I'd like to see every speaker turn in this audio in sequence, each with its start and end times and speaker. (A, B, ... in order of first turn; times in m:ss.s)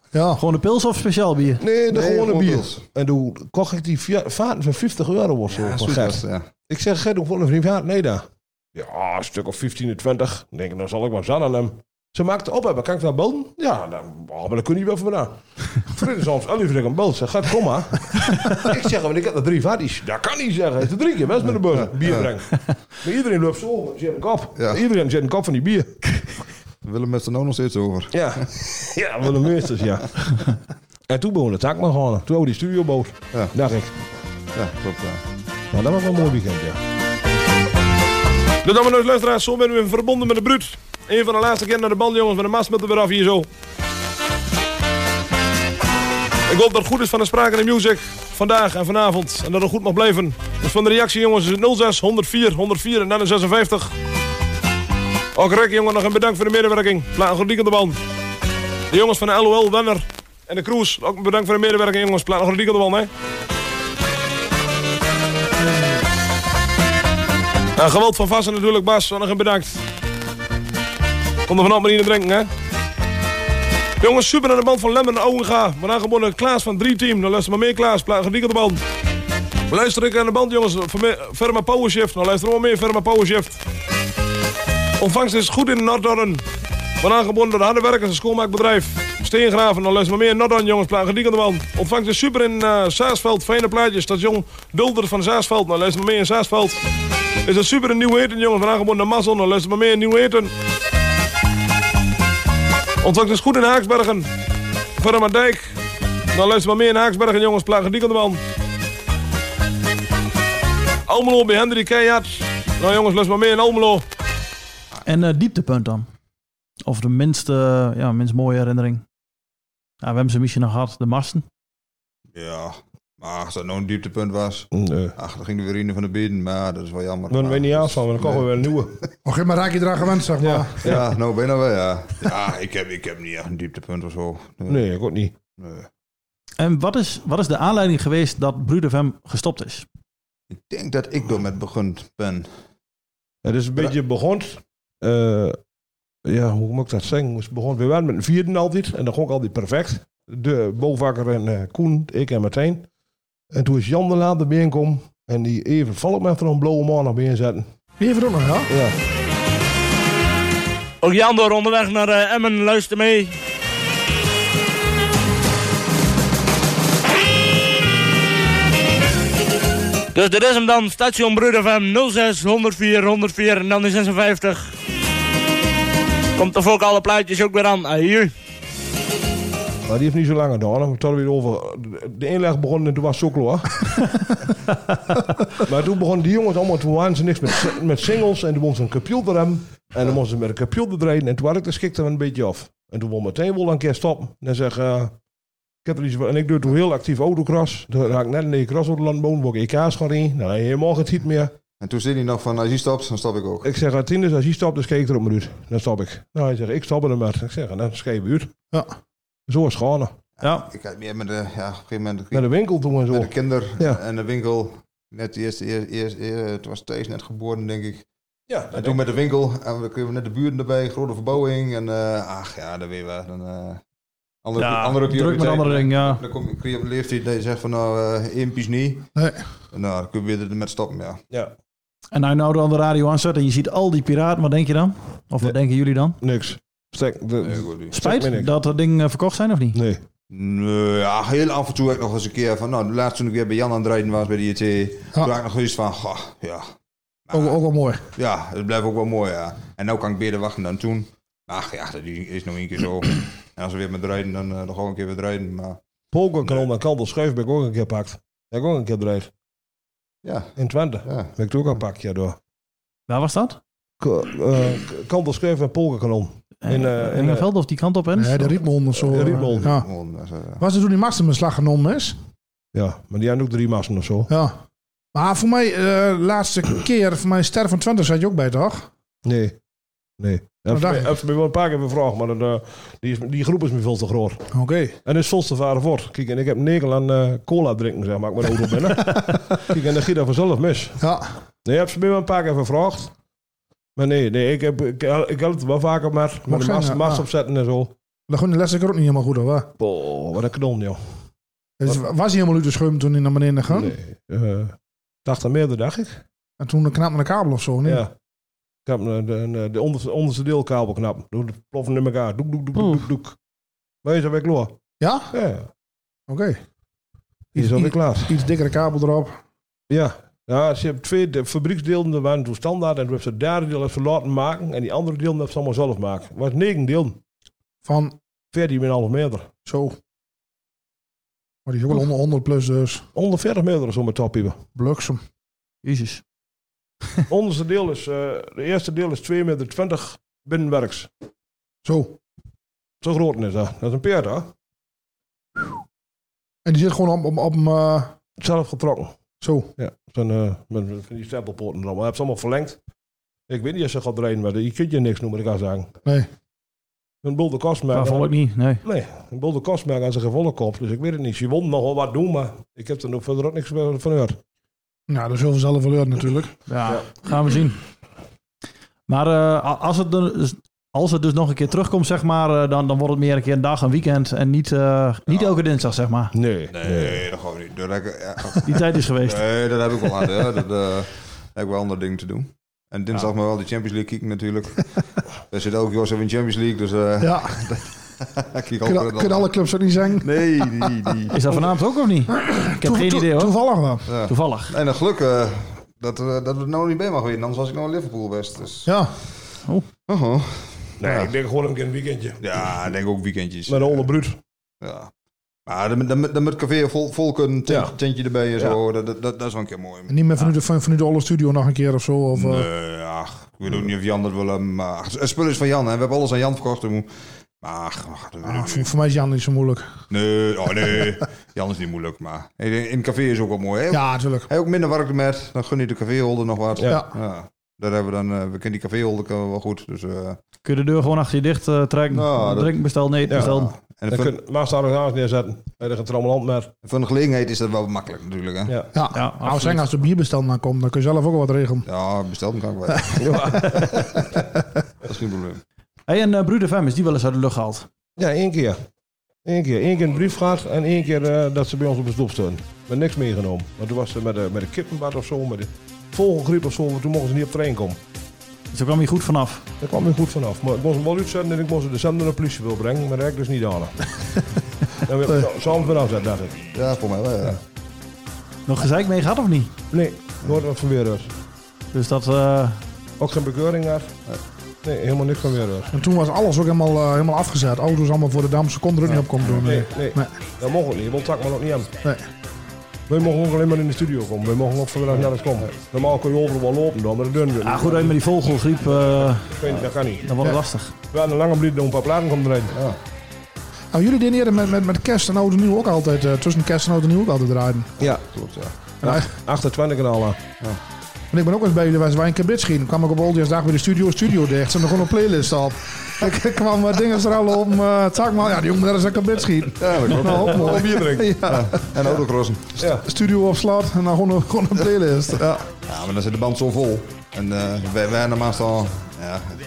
0:00.1-0:00.4 A
0:00.4-0:01.6 B
0:01.6-0:08.2 C
0:01.9-0:02.8 D
0:05.5-0:06.5 D
0:08.7-0:25.9 C
0:21.8-0:22.3 D
0:24.6-0:24.8 D
0:26.8-0:28.4 D
0:28.1-0:30.4 C
0:31.1-0:33.9 C
0:34.5-0:35.2 D
0:35.7-0:36.8 C
0:38.6-0:43.5 C
0:46.5-0:53.9 C
0:55.3-0:58.0 C
0:58.9-1:03.1 C
1:07.8-1:09.8 C
1:11.5-1:12.5 C
1:14.0-1:18.8 C
1:19.7-1:23.6 C
1:25.0-1:26.4 C
1:27.0-1:36.8 C
1:37.4-1:40.5 C
1:43.0-1:44.3 C
1:45.0-1:45.7 C
1:46.3-1:48.4 C
1:51.1-1:54.0 C
1:55.0-1:56.1 B
1:56.8-1:59.0 B
2:00.0-2:01.4 B
2:02.3-2:09.1 D
2:04.7-2:05.1 C
2:07.3-2:08.9 C
2:09.2-2:10.8 A
2:10.4-2:11.0 C
2:10.8-2:14.8 D
2:14.7-2:15.3 C
2:15.6-2:15.9 D
2:16.6-2:19.8 B
2:20.5-2:22.5 D
2:23.4-2:25.6 C
2:26.2-2:32.8 C
2:33.5-2:37.6 C
2:38.0-2:38.7 A
2:38.7-2:38.9 C
2:41.0-2:43.3 E
2:50.1-2:54.7 E
2:56.4-2:58.3 E
2:59.9-3:03.9 C
3:05.6-3:15.1 C
3:15.8-3:21.5 C
3:21.8-3:23.7 D
3:23.6-3:28.5 C
3:29.5-3:30.1 C
3:30.4-3:32.5 D
3:30.4-3:30.7 B
3:32.3-3:34.0 C
3:33.1-3:38.0 D
3:38.5-3:39.0 C
3:38.7-3:43.8 D
3:44.4-3:49.1 D
3:44.6-3:46.2 B
3:49.7-3:51.2 D
3:52.1-3:56.2 B
3:56.2-3:58.5 C
3:57.4-3:57.9 D
3:57.9-3:59.8 B
3:59.7-4:00.0 C
4:00.3-4:06.7 D
4:07.3-4:07.6 D
4:07.3-4:08.0 A
4:08.1-4:15.8 D
4:16.1-4:19.3 C
4:20.2-4:20.5 D
4:20.6-4:22.4 C
4:21.0-4:21.3 D
4:23.1-4:23.6 B
4:24.0-4:27.4 C
4:26.6-4:28.6 B
4:28.2-4:29.9 A
4:28.9-4:29.7 C
4:29.6-4:30.6 D
4:30.6-4:32.2 A
4:32.7-4:34.3 C
4:34.3-4:34.5 A
4:35.1-4:38.9 A
4:39.2-4:39.5 C
4:40.2-4:44.5 C
4:40.7-4:41.1 A
4:44.5-4:44.9 A
4:45.0-4:51.0 C
4:49.1-4:49.4 A
4:51.0-4:51.3 A
4:51.6-4:53.1 C
4:54.0-4:57.9 C
4:56.5-4:57.2 A
4:58.3-4:59.7 A
4:59.8-5:01.0 C
5:01.8-5:03.9 A
5:03.7-5:06.2 C
5:06.6-5:08.0 A
5:07.8-5:08.1 C
5:08.8-5:13.4 C
5:14.0-5:14.7 C
5:15.0-5:15.3 A
5:15.3-5:15.7 C
5:16.3-5:16.6 A
5:17.5-5:18.4 C
5:17.5-5:19.4 A
5:19.9-5:27.2 C
5:27.8-5:28.2 A
5:28.5-5:29.5 C
5:29.7-5:30.0 A
5:31.6-5:33.0 A
5:33.1-5:34.6 C
5:34.8-5:35.2 A
5:35.8-5:36.2 B
5:37.3-5:41.1 C
5:41.8-5:42.1 A
5:43.0-5:44.5 C
5:46.6-5:48.1 A
5:48.4-5:49.1 C
5:49.4-5:49.7 A
5:49.8-5:52.8 C
5:53.5-5:55.9 C
5:57.2-6:04.4 C
5:57.9-5:58.8 B
6:05.1-6:06.5 A
6:06.7-6:07.8 B
6:09.1-6:16.3 B
6:15.3-6:15.6 D
6:16.3-6:17.2 C
6:16.7-6:25.0 D
6:18.6-6:19.4 B
6:25.5-6:29.5 D
6:27.2-6:27.6 A
6:28.8-6:30.9 A
6:30.2-6:31.4 D
6:31.3-6:33.6 B
6:32.4-6:34.1 A
6:34.0-6:39.0 D
6:34.2-6:34.7 B
6:38.8-6:39.1 A
6:40.1-6:41.3 D
6:41.0-6:42.7 C
6:42.4-6:44.1 D
6:43.7-6:44.4 C
6:44.8-6:45.1 D
6:45.7-6:50.2 D
6:47.7-6:47.9 C
6:50.1-6:52.6 A
6:52.3-6:57.1 D
6:57.6-6:58.9 D
6:58.5-6:59.8 A
7:00.1-7:10.4 D
7:03.9-7:04.5 A
7:06.8-7:07.0 C
7:10.6-7:13.7 B
7:12.1-7:12.8 D
7:13.3-7:14.3 D
7:14.1-7:16.7 C
7:16.8-7:18.8 D
7:18.9-7:21.8 A
7:19.1-7:19.8 B
7:21.8-7:24.2 D
7:23.2-7:24.1 C
7:25.0-7:25.6 D
7:26.1-7:27.9 B
7:28.2-7:28.8 C
7:29.4-7:38.0 C
7:38.7-7:39.6 B
7:39.8-7:44.1 C
7:45.0-7:46.6 C
7:46.7-7:47.6 D
7:48.7-7:49.7 B
7:49.9-7:51.3 C
7:51.9-7:52.8 B
7:53.2-7:54.1 C
7:54.8-7:55.9 C
7:55.9-8:00.3 A
7:59.4-7:59.7 D
7:59.6-8:01.9 C
8:02.0-8:02.3 A
8:03.1-8:08.2 C
8:07.6-8:09.5 B
8:09.5-8:10.2 C
8:10.2-8:10.9 B
8:11.1-8:12.7 C
8:12.7-8:13.0 D
8:13.9-8:17.9 A
8:18.0-8:18.7 D
8:19.0-8:20.4 C
8:21.3-8:32.1 A
8:29.8-8:30.8 D
8:30.1-8:31.4 C
8:31.4-8:32.9 D
8:32.8-8:33.0 C
8:33.0-8:35.6 A
8:35.8-8:39.6 D